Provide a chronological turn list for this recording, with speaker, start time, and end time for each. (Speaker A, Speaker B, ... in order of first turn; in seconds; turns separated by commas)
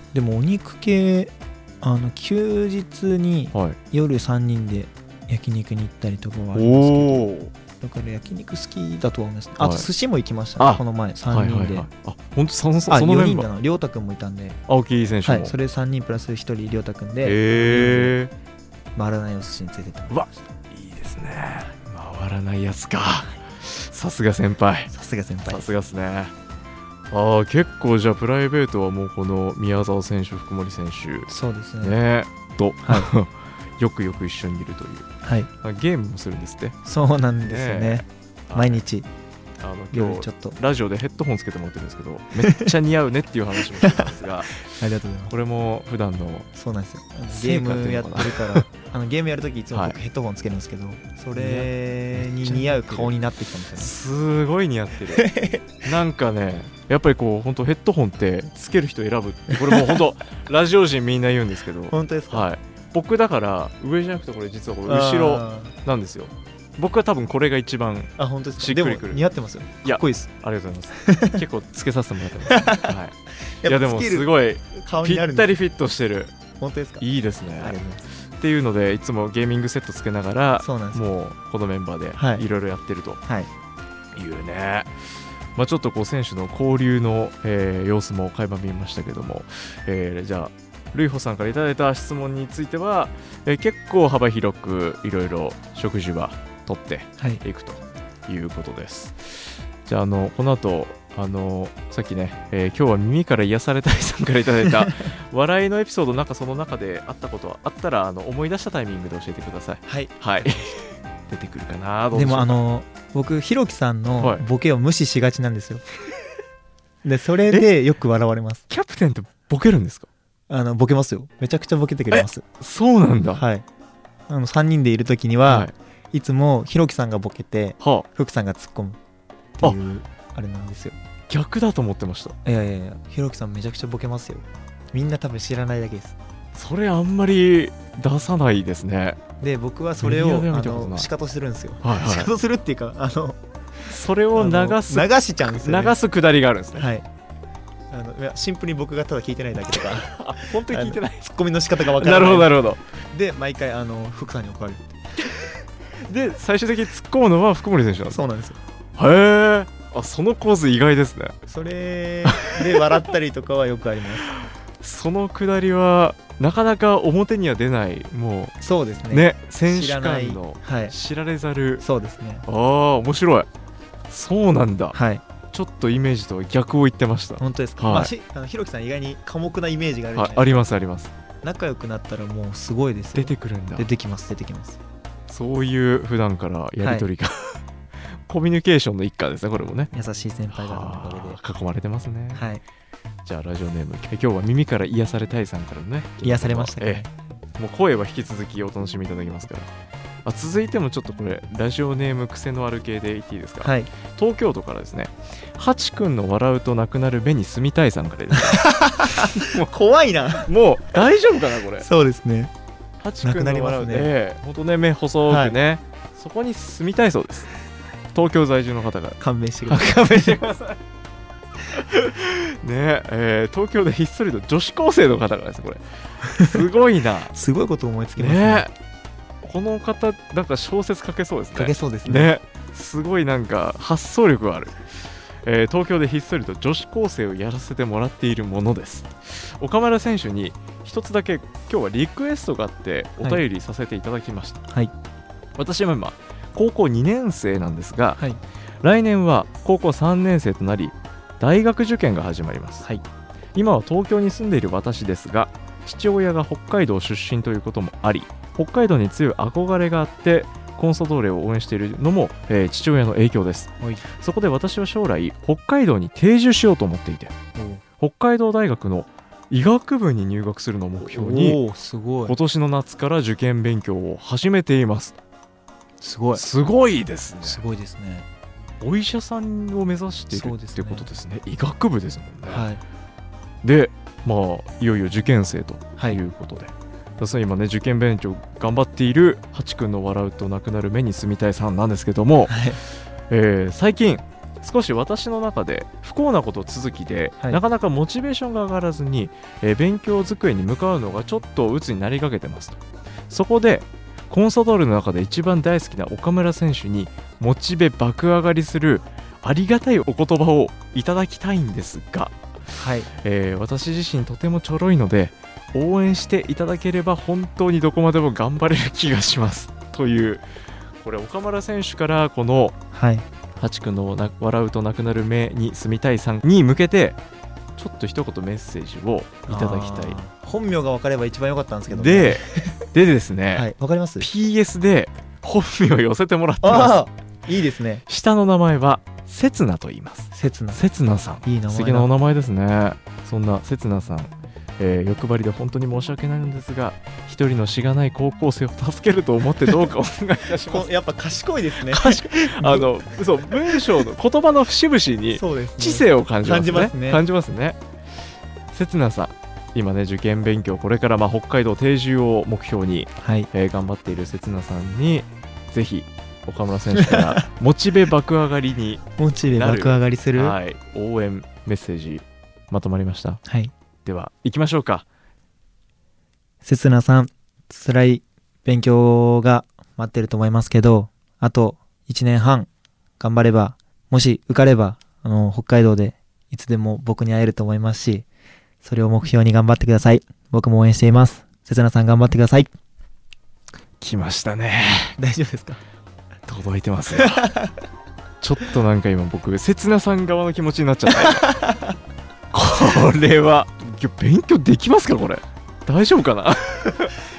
Speaker A: 0.1-7.3, Speaker B: 3.5-3.8, Speaker B: 6.5-7.5, Speaker A: 7.8-11.9, Speaker B: 9.6-9.9, Speaker B: 10.6-13.5, Speaker A: 12.9-14.6, Speaker B: 14.7-15.5, Speaker A: 15.2-18.1, Speaker B: 17.2-18.3, Speaker A: 18.9-20.4, Speaker B: 20.1-24.9, Speaker A: 24.9-25.7, Speaker B: 25.5-26.3, Speaker B: 27.1-31.3, Speaker A: 31.3-32.0, Speaker B: 31.8-35.1, Speaker A: 35.2-35.5, Speaker B: 35.6-36.8, Speaker A: 36.8-39.1, Speaker B: 37.4-38.8, Speaker B: 39.6-44.6, Speaker A: 39.9-40.6, Speaker A: 43.8-44.1, Speaker A: 44.7-45.3, Speaker B: 45.3-46.5, Speaker A: 46.5-53.9, Speaker B: 47.3-48.6, Speaker B: 49.7-50.0, Speaker B: 51.3-53.1, Speaker B: 53.7-55.3, Speaker A: 55.1-55.7, Speaker B: 55.8-69.2, Speaker A: 59.6-60.0, Speaker A: 61.9-62.5, Speaker A: 64.8-65.7, Speaker A: 68.2-70.3, Speaker B: 69.8-76.3, Speaker A: 71.0-71.4, Speaker A: 72.5-72.8, Speaker A: 73.6-75.5, Speaker A: 76.6-77.0, Speaker B: 77.0-83.2, Speaker A: 77.6-77.8, Speaker A: 80.6-81.0, Speaker A: 82.2-82.4, Speaker A: 83.2-83.5, Speaker B: 84.1-84.9, Speaker B: 85.5-110.6, Speaker A: 109.8-110.8, Speaker B: 111.3-112.6, Speaker A: 112.1-115.8, Speaker B: 114.2-114.4, Speaker A: 117.0-118.6, Speaker B: 118.7-120.1, Speaker A: 120.5-122.4, Speaker B: 122.1-123.4, Speaker A: 123.3-123.6, Speaker A: 124.3-129.0, Speaker B: 125.5-125.7, Speaker B: 127.8-128.1, Speaker A: 129.6-130.9, Speaker B: 131.3-132.4, Speaker A: 132.4-136.1, Speaker B: 136.5-139.2, Speaker A: 139.4-143.4, Speaker B: 140.0-141.1, Speaker B: 141.8-142.3, Speaker B: 143.9-146.9, Speaker A: 144.3-146.0, Speaker A: 146.8-147.1, Speaker A: 147.9-152.6, Speaker B: 150.1-151.3, Speaker B: 151.8-152.8, Speaker A: 153.1-155.0, Speaker B: 156.0-158.2, Speaker A: 158.1-158.6, Speaker B: 159.0-161.3, Speaker A: 161.5-164.3, Speaker B: 162.3-162.8, Speaker B: 164.8-168.6, Speaker A: 168.6-170.9, Speaker B: 169.1-171.8, Speaker A: 171.8-172.5, Speaker B: 172.4-173.5, Speaker B: 174.1-174.9, Speaker A: 174.9-175.2, Speaker B: 175.5-178.1, Speaker A: 177.4-180.7, Speaker B: 180.1-181.1, Speaker A: 181.4-184.8, Speaker B: 183.1-183.9, Speaker B: 185.3-187.6, Speaker A: 186.8-187.1, Speaker B: 188.2-189.9, Speaker A: 189.9-191.4, Speaker B: 190.5-192.4, Speaker A: 192.3-192.6, Speaker B: 193.2-197.0, Speaker A: 196.2-197.1, Speaker B: 197.6-199.7, Speaker B: 200.2-209.7, Speaker A: 203.6-203.9, Speaker A: 208.3-210.5, Speaker B: 210.4-211.8, Speaker A: 211.8-212.5, Speaker B: 213.0-217.5, Speaker A: 213.2-214.1, Speaker A: 215.2-215.6, Speaker B: 218.1-220.8, Speaker A: 219.2-220.4, Speaker B: 221.7-225.8, Speaker A: 226.3-226.6, Speaker B: 226.4-227.3, Speaker A: 227.3-228.7, Speaker B: 228.2-228.7, Speaker B: 229.4-234.8, Speaker A: 231.5-232.3, Speaker B: 235.4-244.6, Speaker B: 245.6-248.2, Speaker B: 248.8-252.9, Speaker B: 253.5-267.4, Speaker A: 267.6-267.8, Speaker B: 268.0-271.6, Speaker A: 271.0-272.4, Speaker B: 272.2-275.2, Speaker A: 276.0-276.4, Speaker B: 276.3-277.6, Speaker A: 277.4-278.2, Speaker B: 278.8-282.7, Speaker A: 280.3-281.1, Speaker A: 282.5-282.8, Speaker B: 283.6-292.6, Speaker A: 292.5-292.8, Speaker B: 293.3-302.8, Speaker B: 303.3-312.4, Speaker A: 312.8-313.1, Speaker B: 313.2-320.4, Speaker B: 321.0-322.8, Speaker A: 322.9-323.2, Speaker B: 323.6-327.2, Speaker B: 327.8-330.2, Speaker A: 329.5-332.8, Speaker B: 331.9-333.6, Speaker A: 333.5-334.3, Speaker B: 334.2-337.0, Speaker A: 336.6-338.0, Speaker B: 338.1-350.9, Speaker A: 340.3-340.8, Speaker A: 341.4-342.1, Speaker A: 350.7-354.0, Speaker B: 351.9-357.8, Speaker A: 355.3-357.2, Speaker B: 358.7-373.4, Speaker A: 363.2-363.5, Speaker A: 366.9-367.4, Speaker A: 369.2-370.6, Speaker A: 373.4-373.7, Speaker B: 374.0-375.0, Speaker A: 376.6-382.7, Speaker A: 383.2-388.2, Speaker A: 388.8-392.7, Speaker B: 394.0-395.2, Speaker A: 395.2-395.8, Speaker B: 396.5-397.5, Speaker A: 397.1-397.7, Speaker B: 398.4-401.5, Speaker A: 401.1-401.9, Speaker B: 402.5-407.1